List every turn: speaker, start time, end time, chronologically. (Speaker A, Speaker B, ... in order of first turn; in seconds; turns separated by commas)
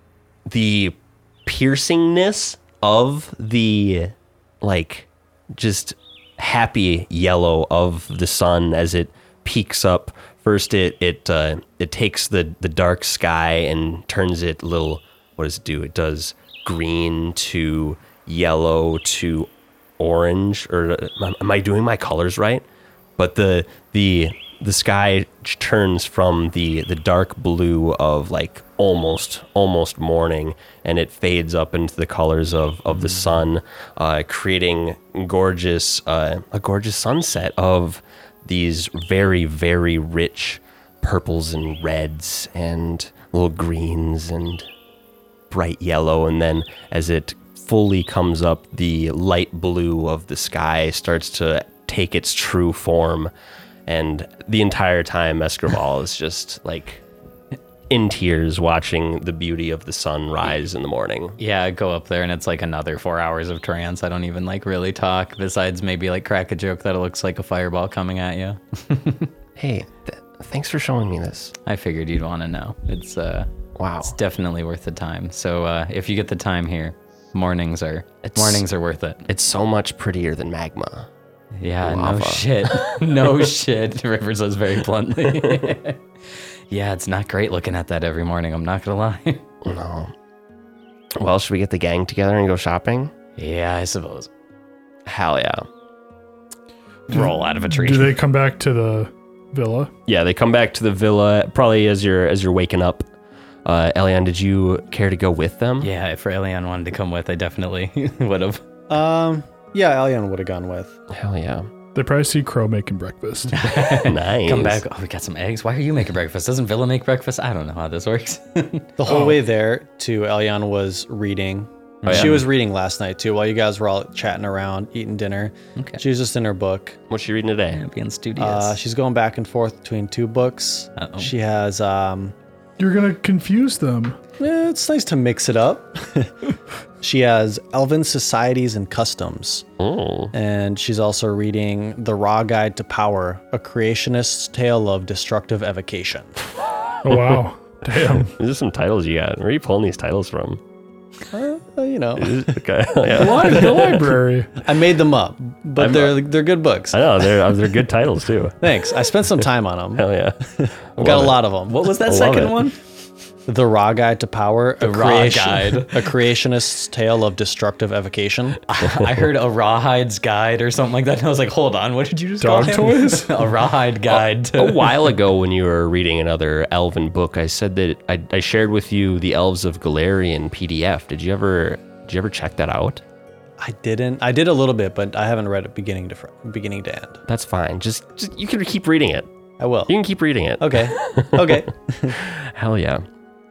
Speaker A: 0.5-22.6, Speaker A: 23.2-44.7, Speaker A: 45.5-53.3, Speaker A: 53.9-57.0, Speaker A: 57.9-61.4, Speaker B: 61.4-69.3, Speaker A: 69.6-71.5, Speaker B: 71.7-73.5, Speaker A: 73.8-74.2, Speaker B: 74.0-79.2, Speaker A: 78.2-78.6, Speaker A: 79.3-81.1, Speaker B: 81.6-86.0, Speaker A: 81.8-83.3, Speaker A: 85.3-85.7, Speaker B: 86.7-89.4, Speaker A: 89.6-90.1, Speaker A: 91.2-93.1, Speaker B: 93.4-94.3, Speaker A: 95.1-95.7, Speaker B: 97.1-98.2, Speaker C: 97.1-99.9, Speaker A: 100.1-103.1, Speaker A: 103.7-105.9, Speaker B: 105.8-108.6, Speaker D: 108.9-111.0, Speaker A: 111.1-111.7, Speaker C: 112.0-113.6, Speaker B: 113.5-118.9, Speaker A: 113.9-114.8, Speaker D: 119.0-127.0, Speaker C: 119.1-119.4, Speaker B: 122.0-122.5, Speaker A: 127.1-127.8, Speaker B: 127.7-128.8, Speaker D: 128.4-132.3, Speaker B: 131.0-131.3, Speaker C: 132.8-134.2, Speaker D: 134.4-139.7, Speaker A: 139.8-140.3, Speaker D: 140.3-146.4, Speaker C: 147.0-148.3, Speaker A: 147.1-147.4, Speaker A: 148.2-150.6, Speaker D: 151.3-152.5, Speaker A: 152.2-154.1, Speaker C: 153.1-154.7, Speaker D: 154.6-157.0, Speaker B: 155.8-156.1, Speaker A: 156.9-158.6, Speaker D: 158.6-161.8, Speaker A: 159.9-160.4, Speaker A: 160.9-162.6, Speaker B: 161.7-162.8, Speaker D: 163.5-168.6, Speaker B: 164.8-166.3, Speaker B: 168.7-174.9, Speaker C: 172.4-173.4, Speaker A: 174.1-183.0, Speaker D: 183.6-187.2, Speaker A: 187.3-189.3, Speaker D: 189.6-189.9, Speaker A: 189.9-193.0, Speaker D: 190.6-192.2